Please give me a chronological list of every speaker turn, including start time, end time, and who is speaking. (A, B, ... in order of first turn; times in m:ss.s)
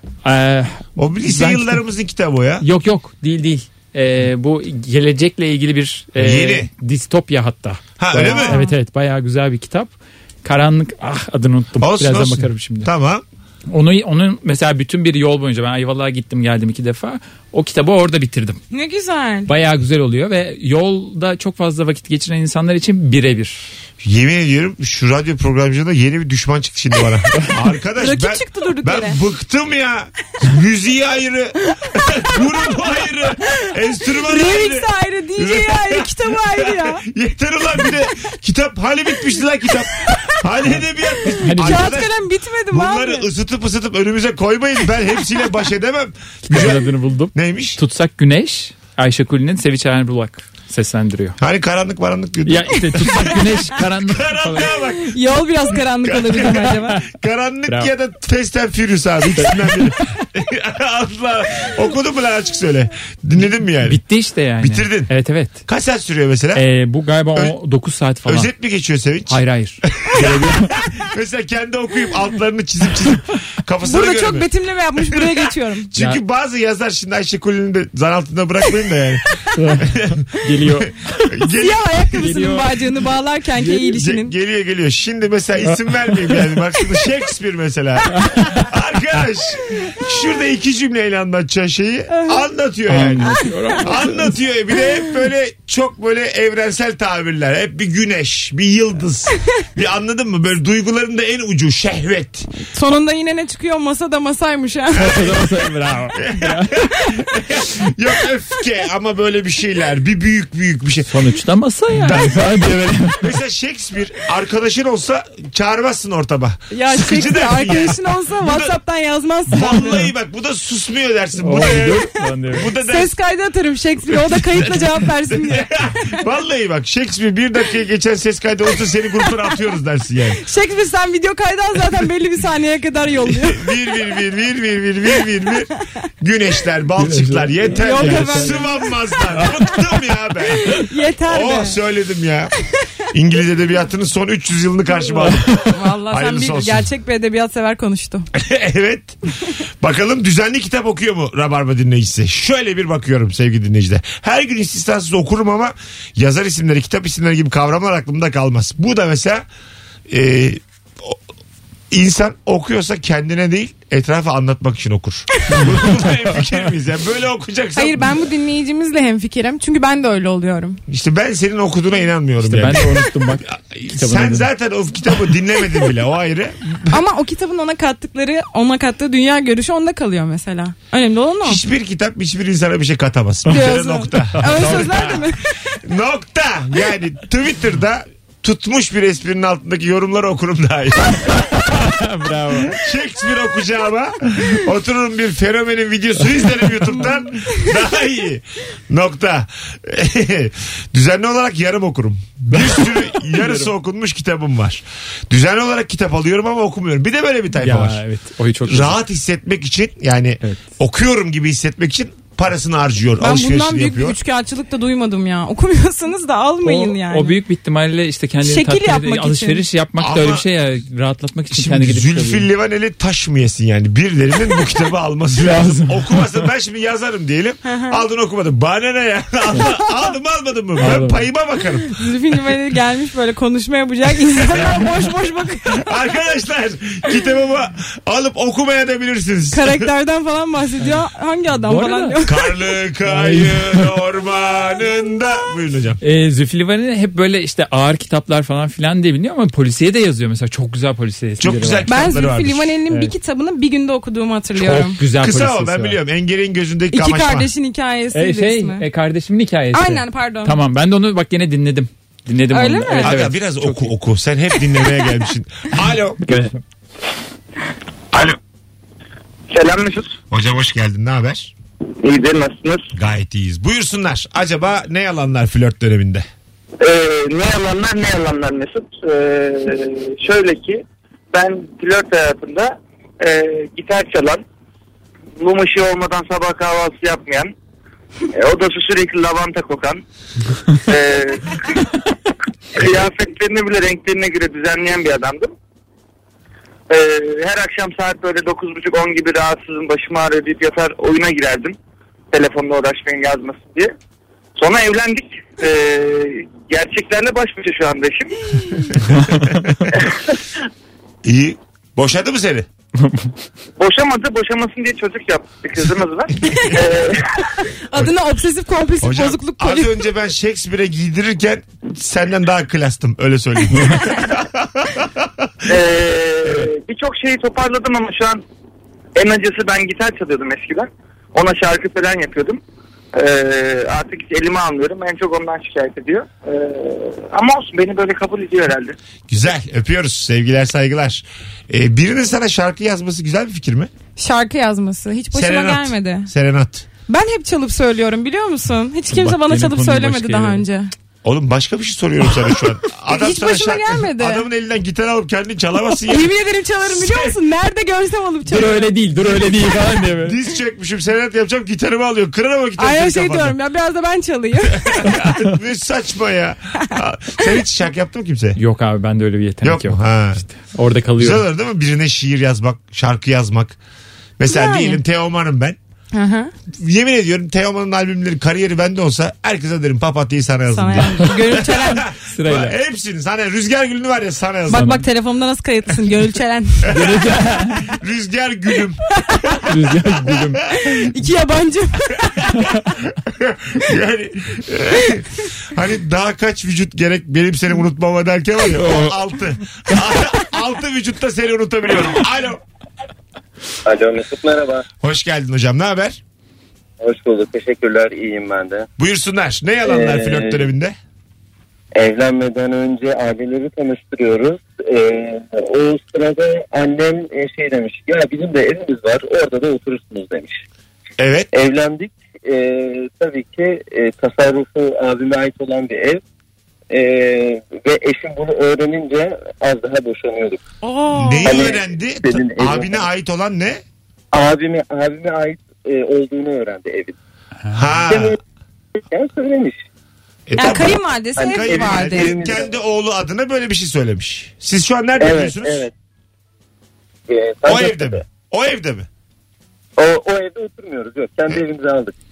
0:00.2-0:01.8 A
0:01.0-0:02.6 B
0:02.6-0:09.9 A
0:06.2-0:06.7 B
0:08.0-0:08.6 B
0:08.2-0:08.7 C
0:10.4-0:12.9 A
0:11.8-0:13.2 B
0:13.7-0:18.6 A
0:18.7-0:19.5 C
0:19.5-0:23.7 A
0:24.0-0:47.8 B
0:28.0-0:29.2 C
0:34.2-0:37.0 C
0:41.2-0:43.3 C
0:41.4-0:42.0 A
0:46.5-0:51.4 A
0:51.4-0:55.2 B
0:52.5-0:54.8 A
0:55.0-0:57.0 C
0:56.0-1:04.0 B
0:59.4-0:59.7 A
1:03.8-1:05.6 A
1:04.6-1:05.1 B
1:05.7-1:06.6 B
1:06.6-1:08.5 A
1:08.2-1:22.3 B
1:09.3-1:10.7 A
1:13.8-1:15.9 C
1:16.0-1:16.2 A
1:19.6-1:21.3 A
1:21.5-1:24.3 C
1:22.2-1:22.8 A
1:23.6-1:23.9 A
1:23.8-1:42.5 B
1:25.7-1:26.5 A
1:28.2-1:28.6 A
1:32.1-1:32.5 C
1:32.9-1:34.4 A
1:42.7-1:45.2 C
1:45.0-1:46.9 A
1:45.1-1:45.4 B
1:46.2-1:51.1 B
1:51.1-1:53.3 A
1:51.9-1:52.5 B
1:53.2-1:58.8 B
1:56.7-2:00.0 C
1:59.5-2:03.2 B
2:01.4-2:02.7 A
2:02.7-2:06.2 C
2:04.1-2:10.4 B
2:10.4-2:13.8 C
2:13.3-2:22.5 B
2:17.0-2:18.6 A
2:17.7-2:19.0 C
2:19.3-2:19.6 A
2:20.7-2:21.8 C
2:23.1-2:26.9 B
2:25.7-2:28.3 C
2:28.4-2:29.2 B
2:29.8-2:39.4 B
2:40.1-2:41.2 B
2:41.9-2:48.2 B
2:45.5-2:46.1 A
2:47.8-2:50.8 C
2:50.9-2:57.0 B
2:52.4-2:54.5 A
2:56.9-3:01.6 C
3:01.4-3:05.1 B
3:03.5-3:05.4 C
3:04.4-3:05.2 A
3:05.8-3:11.8 B
3:11.7-3:12.8 A
3:12.6-3:28.0 B
3:22.5-3:23.7 A
3:27.6-3:29.0 A
3:28.7-3:34.2 B
3:33.2-3:37.4 C
3:36.6-3:42.5 A
3:38.4-3:39.6 C
3:40.0-3:40.5 B
3:41.5-3:52.0 B
3:45.4-3:46.4 A
3:47.6-3:48.0 C
3:50.8-3:51.3 A
3:51.9-3:55.9 C
3:55.7-3:59.9 B
3:59.5-4:02.7 C
4:01.6-4:02.2 A
4:02.2-4:06.0 B
4:03.1-4:03.9 A
4:06.0-4:11.9 A
4:11.4-4:12.8 B
4:11.8-4:15.0 C
4:12.9-4:13.1 A
4:14.6-4:16.0 A
4:15.2-4:17.5 B
4:16.9-4:18.9 C
4:18.1-4:23.9 A
4:19.7-4:20.6 C
4:22.5-4:23.2 C
4:23.0-4:26.3 B
4:26.3-4:26.6 A
4:29.5-4:30.2 D
4:30.3-4:31.5 B
4:32.0-4:32.9 D
4:32.9-4:36.3 B
4:36.8-4:44.4 D
4:45.4-4:47.5 D
4:48.3-4:50.0 D
4:50.9-4:51.8 D
4:52.8-4:55.5 D
4:56.9-5:01.8 D
5:02.3-5:03.9 D
5:04.6-5:08.3 D
5:09.1-5:09.6 B
5:09.1-5:09.7 A
5:11.2-5:12.7 B
5:13.8-5:17.3 D
5:17.9-5:20.0 C
5:19.0-5:25.3 B
5:25.7-5:28.4 D
5:29.2-5:32.6 D
5:33.1-5:39.0 D
5:39.3-5:43.9 B
5:44.2-5:46.3 C
5:45.3-5:46.9 B
5:47.1-5:50.9 C
5:49.1-5:50.6 A
5:51.2-5:57.4 B
5:53.1-5:54.5 C
5:56.0-5:58.9 C
5:58.5-6:00.4 A
5:59.4-6:03.6 B
6:02.8-6:05.2 C
6:04.8-6:08.6 B
6:08.6-6:11.4 A
6:09.6-6:10.4 B
6:11.2-6:13.8 B
6:14.4-6:15.8 B
6:14.5-6:15.0 C
6:16.1-6:16.5 C
6:16.7-6:25.0 B
6:20.7-6:22.1 C
6:22.3-6:22.8 A
6:24.7-6:26.9 C
6:24.7-6:25.0 A
6:26.9-6:27.9 A
6:27.9-6:29.0 B
6:29.3-6:29.5 C
6:29.6-6:30.6 A
6:30.3-6:30.8 B
6:30.8-6:32.5 C
6:33.2-6:42.6 B
6:38.8-6:39.2 A
6:43.8-6:44.9 E
6:45.0-6:46.2 B
6:47.0-6:48.9 E
6:49.0-6:51.0 B
6:49.8-6:50.7 E
6:51.9-7:00.6 E
7:01.2-7:01.5 B
7:01.5-7:06.2 E
7:06.9-7:10.6 E
7:10.8-7:11.7 C
7:11.2-7:13.8 B
7:11.4-7:13.0 E
7:14.3-7:17.2 E
7:17.7-7:18.4 B
7:18.1-7:18.4 E
7:19.1-7:19.8 E
7:20.5-7:25.9 B
7:20.6-7:22.4 C
7:21.4-7:22.7 E
7:25.2-7:25.9 E
7:27.3-7:28.2 E
7:27.6-7:29.1 B
7:30.0-7:32.2 E